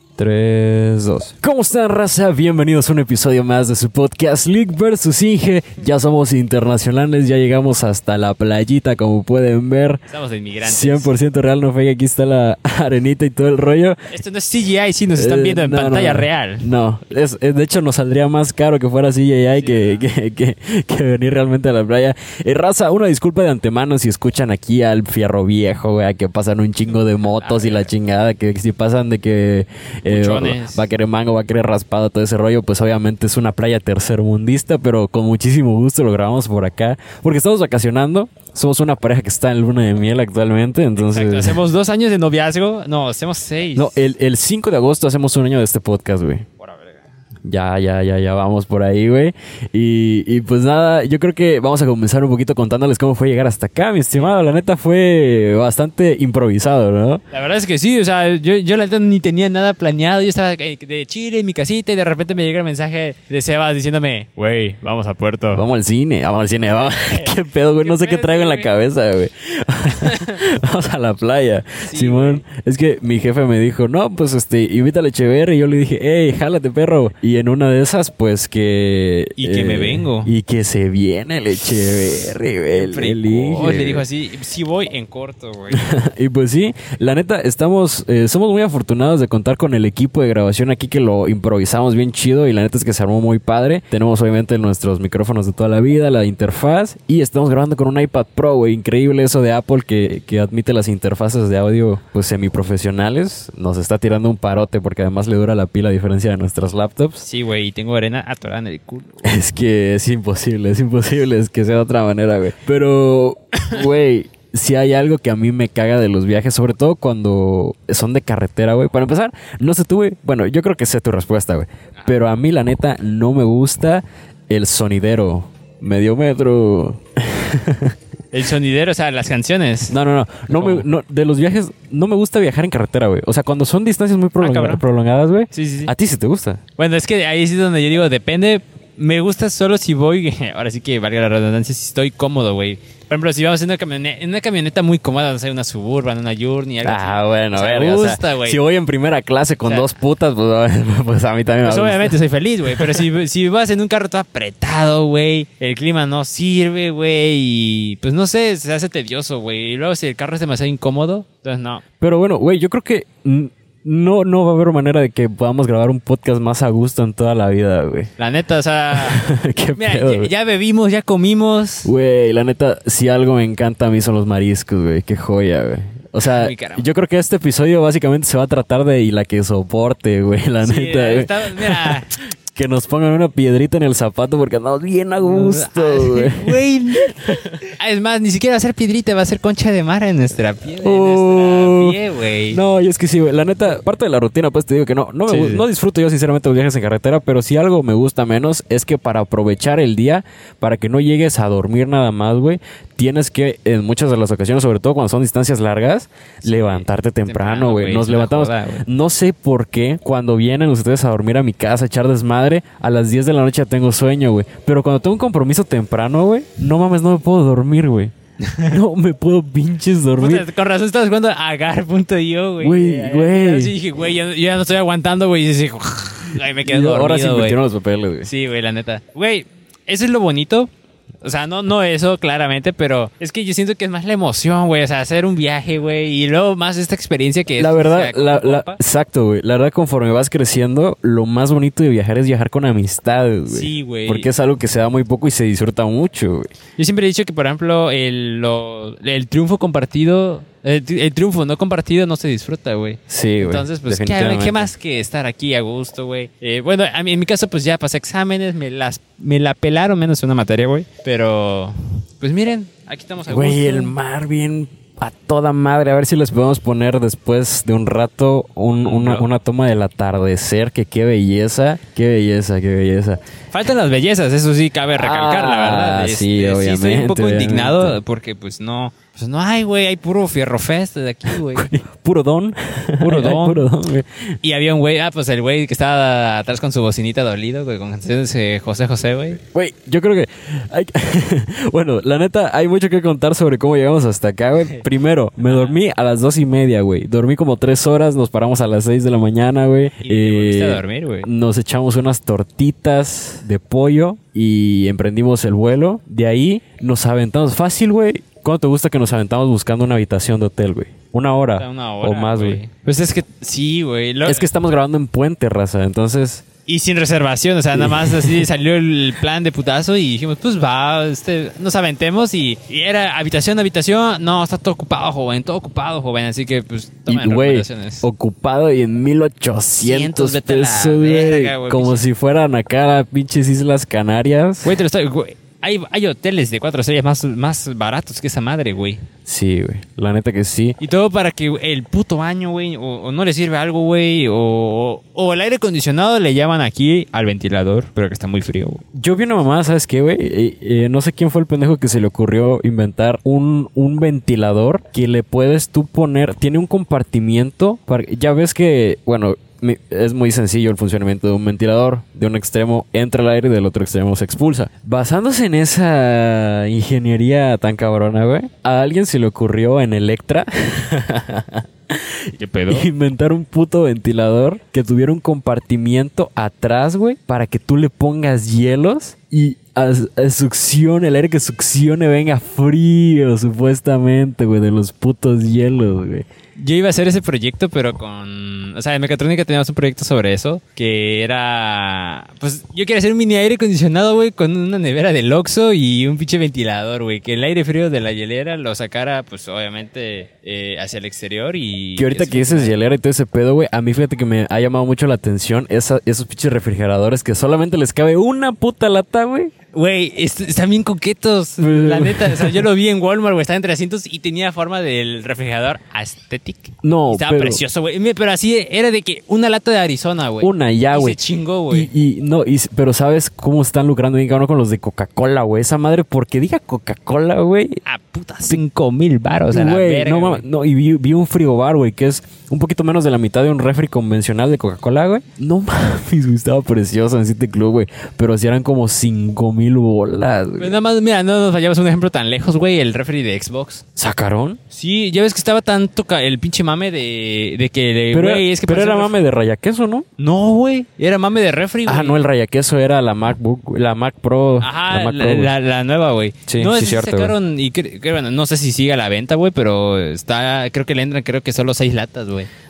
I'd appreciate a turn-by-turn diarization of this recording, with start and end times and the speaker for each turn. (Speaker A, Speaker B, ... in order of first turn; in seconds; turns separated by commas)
Speaker A: 0.2-10.0, Speaker B: 10.1-11.1, Speaker A: 10.6-14.1, Speaker B: 14.1-16.6, Speaker A: 15.1-41.6, Speaker B: 19.6-20.0, Speaker B: 27.3-27.9, Speaker B: 30.1-30.9, Speaker B: 41.0-43.9, Speaker A: 43.8-46.5, Speaker B: 46.6-47.0, Speaker A: 47.5-57.2, Speaker B: 57.3-65.6, Speaker A: 65.5-84.0, Speaker B: 66.7-68.7, Speaker B: 70.0-70.4, Speaker B: 71.8-72.4, Speaker B: 79.4-80.3, Speaker B: 82.8-85.9, Speaker A: 85.7-107.2, Speaker B: 107.2-109.2, Speaker A: 109.2-127.9, Speaker B: 128.3-129.9, Speaker A: 129.9-136.6, Speaker B: 130.5-130.8, Speaker B: 134.4-134.8, Speaker B: 135.5-135.9, Speaker B: 136.8-148.6, Speaker A: 146.8-152.2, Speaker B: 151.6-161.8, Speaker A: 152.7-153.0, Speaker A: 162.0-168.1, Speaker B: 168.2-169.2, Speaker A: 168.9-170.3, Speaker B: 169.8-171.9, Speaker A: 171.8-187.5, Speaker B: 176.2-176.8, Speaker B: 180.6-182.1, Speaker B: 185.2-192.6, Speaker A: 190.8-192.0, Speaker A: 192.5-220.4, Speaker B: 195.3-195.7, Speaker B: 206.4-208.8, Speaker B: 218.4-218.8, Speaker B: 220.2-227.6, Speaker A: 222.6-223.7, Speaker A: 226.6-228.3, Speaker B: 228.2-230.7, Speaker B: 231.2-238.8, Speaker A: 237.6-246.5, Speaker B: 243.5-244.3, Speaker B: 246.8-263.9, Speaker A: 253.1-254.7, Speaker A: 263.3-273.2, Speaker B: 268.8-269.2, Speaker B: 273.5-281.7, Speaker A: 274.9-278.0, Speaker A: 281.5-284.3, Speaker B: 283.0-283.6, Speaker B: 284.4-289.4, Speaker A: 289.5-312.6, Speaker B: 295.4-295.8, Speaker B: 300.0-301.3, Speaker B: 311.6-314.4, Speaker A: 314.2-316.4, Speaker B: 316.7-328.0, Speaker A: 317.7-318.4, Speaker A: 327.1-334.8, Speaker B: 329.8-332.1, Speaker B: 334.6-339.0, Speaker A: 339.2-340.8, Speaker B: 340.8-348.8, Speaker A: 348.9-386.2, Speaker B: 372.4-372.9, Speaker B: 386.6-402.8, Speaker A: 401.9-409.5, Speaker B: 409.7-421.9, Speaker A: 411.6-412.7, Speaker A: 416.8-417.6, Speaker A: 420.4-421.2, Speaker A: 421.7-427.8, Speaker B: 427.8-430.4, Speaker A: 429.5-440.7, Speaker B: 440.6-443.8, Speaker A: 443.9-444.6, Speaker B: 444.7-449.1, Speaker A: 448.1-450.1, Speaker B: 450.2-452.2, Speaker A: 451.9-455.5, Speaker B: 454.6-462.5, Speaker A: 456.4-457.3